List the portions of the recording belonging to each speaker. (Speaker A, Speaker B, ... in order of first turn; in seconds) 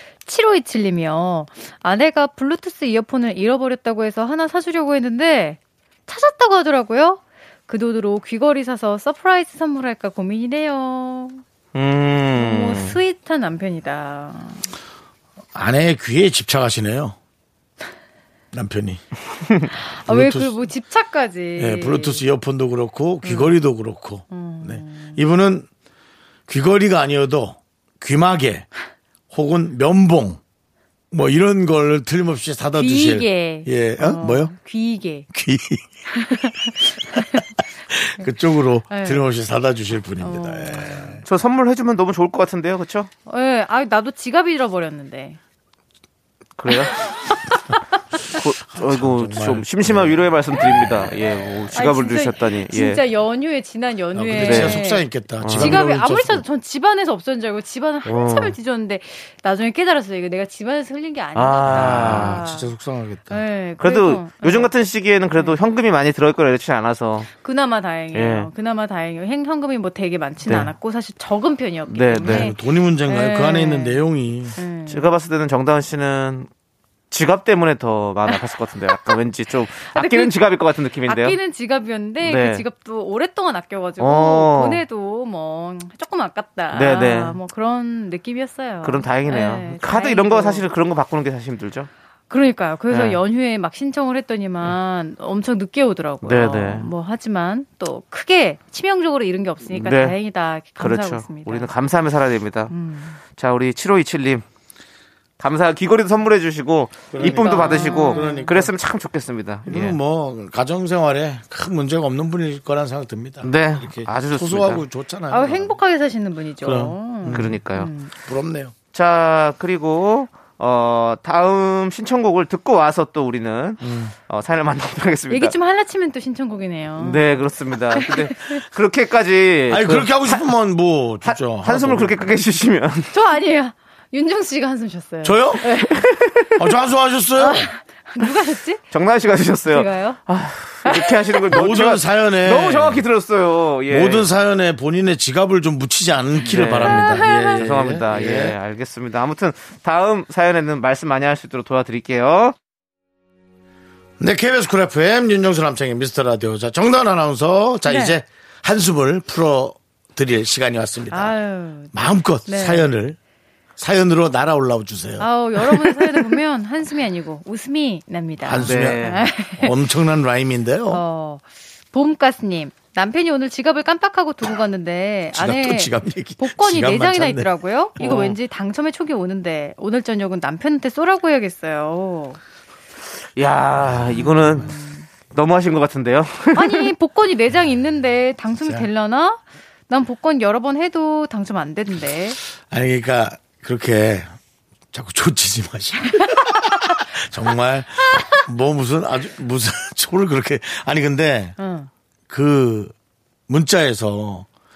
Speaker A: 0.2-11.4, 12.3-14.7, 19.8-22.2, 23.2-23.6, 24.3-25.2, 32.8-35.3, 36.1-37.5, 38.9-39.2, 40.2-41.2, 43.3-45.4, 46.9-47.8, 51.7-62.7, 63.3-64.7, 67.4-75.1, 78.9-79.2, 79.8-80.4, 81.0-90.7, 92.3-101.7, 102.7-103.2, 107.2-108.5, 115.3-118.1, 125.3-128.6, 133.1-136.1, 137.4-138.8, 139.7-140.2, 140.9-141.5, 146.8-147.6, 157.9-158.2, 161.1-161.9, 162.5-162.9, 165.2-169.8, 170.9-182.4, 184.1-185.1, 186.6-192.4, 201.6-201.9
Speaker B: 11.7-13.0, 41.2-43.1, 46.6-47.0, 48.3-53.0, 54.4-54.8, 55.4-55.8, 58.0-58.5, 61.4-62.4, 63.8-67.3, 68.1-68.5, 70.5-70.7, 71.9-72.5, 74.9-76.5, 77.1-81.4, 82.2-82.6, 84.0-84.8, 86.7-87.4, 88.8-91.9, 92.9-93.2, 96.2-96.9, 99.7-100.2, 100.8-102.7, 103.3-104.4, 105.4-110.0, 113.4-114.8, 117.3-117.9, 118.9-125.5, 127.0-130.5, 131.2-133.1, 135.8-136.5, 138.9-144.3, 146.4-152.6, 168.6-169.3, 178.0-178.3, 183.4-184.7, 185.3-186.9
Speaker C: 15.6-17.2, 18.5-19.0, 20.1-20.6, 21.6-25.7, 26.5-28.7, 29.3-30.4, 31.1-34.5, 35.3-35.9, 37.9-41.2, 48.7-51.2, 54.1-56.4, 61.6-63.4, 72.2-74.6, 107.1-108.7, 109.7-115.8, 116.6-117.6, 118.2-118.7, 123.8-124.1, 129.7-132.3, 135.2-135.7, 136.6-137.7, 141.5-143.0, 143.9-148.6, 154.2-161.4, 161.9-163.2, 163.8-166.4, 168.4-169.0, 169.6-171.0, 175.3-177.5, 188.6-188.9, 192.6-194.3, 194.9-201.6, 202.3-202.9, 203.5-204.5